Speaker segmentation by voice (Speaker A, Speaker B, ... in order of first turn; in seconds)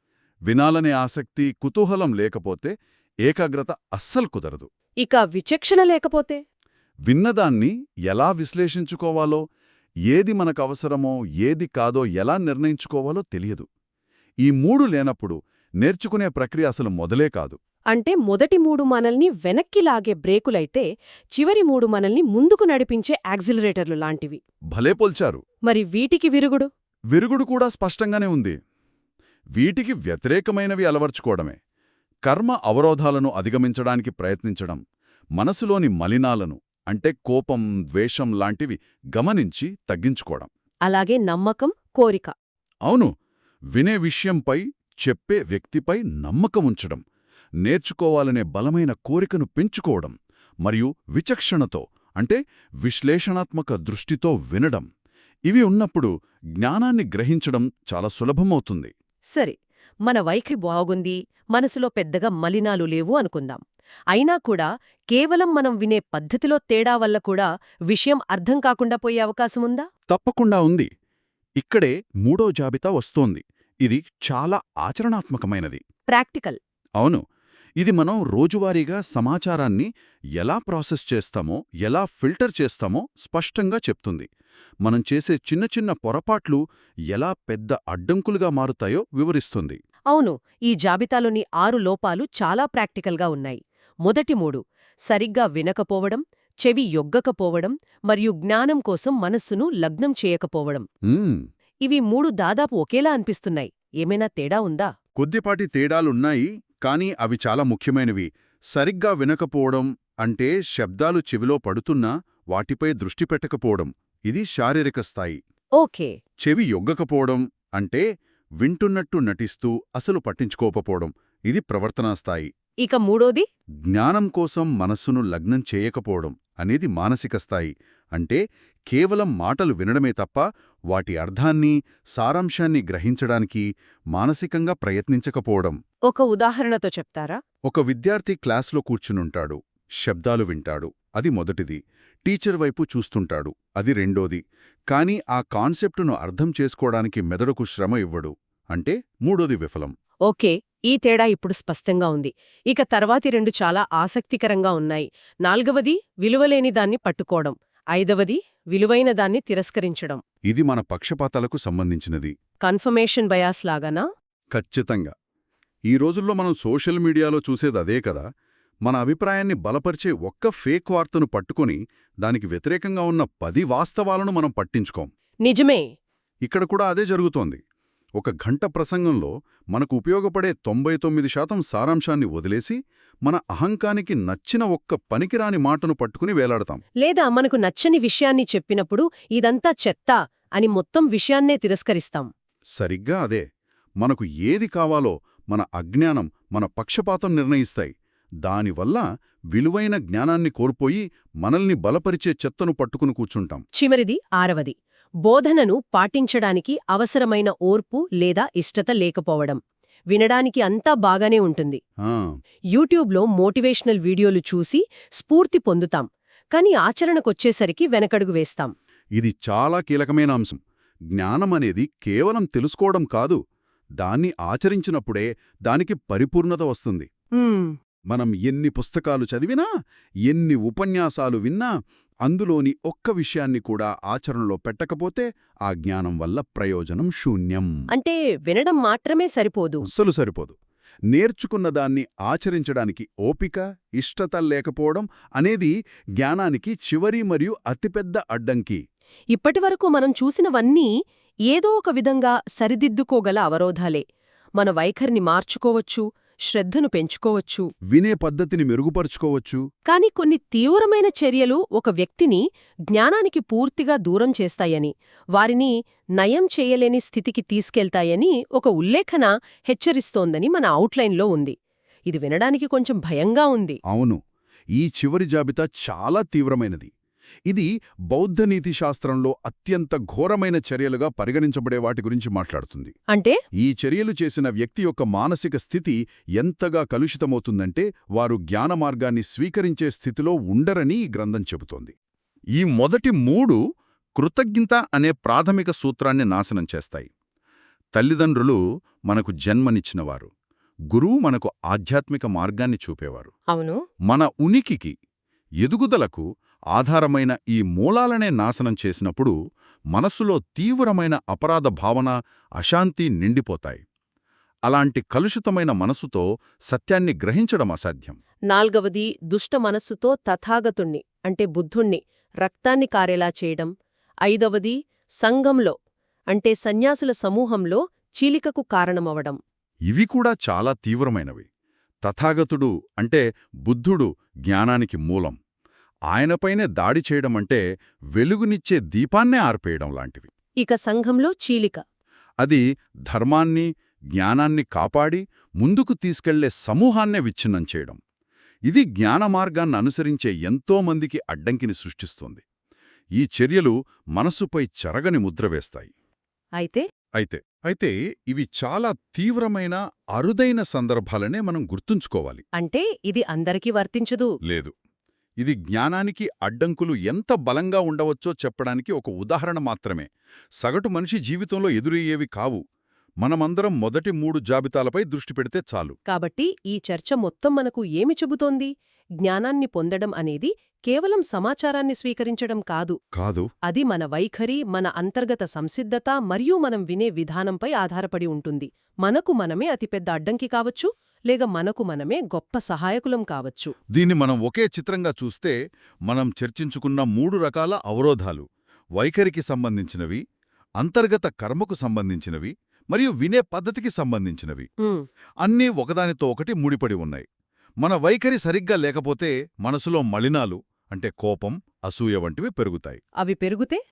Speaker A: 0.5-2.7, 3.2-4.7, 7.1-9.4, 10.1-13.7, 14.4-17.6, 24.7-25.4, 27.1-28.6, 29.6-31.6, 32.3-34.8, 35.4-40.5, 43.8-47.0, 47.6-50.1, 50.7-54.9, 55.5-58.9, 70.1-70.9, 71.6-75.8, 77.8-79.9, 80.4-84.3, 84.8-86.6, 87.1-89.8, 101.1-101.4, 105.2-115.4, 116.4-118.0, 118.6-122.5, 123.9-135.8, 137.7-149.9, 160.5-162.3, 164.5-165.1, 165.9-168.2, 168.8-175.1, 176.4-177.6, 178.2-186.8, 192.8-193.4, 194.0-197.9, 198.4-203.6, 212.1-212.3, 219.2-220.6, 221.1-223.4, 224.0-227.1, 228.1-229.7, 230.3-231.7, 232.3-237.7, 239.8-240.6, 241.1-248.8, 257.9-259.6, 273.9-274.2, 274.8-276.9, 277.5-282.9, 283.6-291.9, 292.6-293.6, 294.2-297.1, 297.9-300.3, 300.9-303.3, 304.1-304.9, 305.6-309.3, 309.9-313.8, 314.7-318.2, 329.9-331.4, 332.0-335.4, 336.1-337.6, 338.2-340.3, 342.4-348.0, 348.7-352.4, 353.2-355.9, 357.2-362.4, 364.5-364.7, 365.4-370.1, 370.6-372.6, 373.2-375.9, 383.1-383.5, 393.9-395.6, 396.1-398.4, 399.0-400.2, 400.8-404.7, 405.4-407.2, 407.8-413.0
Speaker B: 5.0-6.4, 17.9-24.4, 25.7-26.7, 40.9-42.3, 59.3-63.6, 64.1-69.9, 76.1-76.6, 90.1-100.9, 101.9-104.9, 115.8-116.1, 122.8-123.4, 136.1-137.4, 150.3-160.2, 162.7-164.1, 175.4-175.8, 187.0-192.3, 203.8-209.6, 210.1-211.8, 212.7-218.7, 227.4-227.8, 237.9-239.8, 249.3-250.9, 251.5-254.0, 254.6-257.7, 259.9-271.6, 272.1-273.8, 303.5-303.8, 318.5-323.7, 324.3-325.8, 326.3-329.4, 340.6-341.8, 356.6-356.8, 362.6-364.3, 376.1-378.7, 379.2-383.0, 383.7-393.7, 413.2-413.8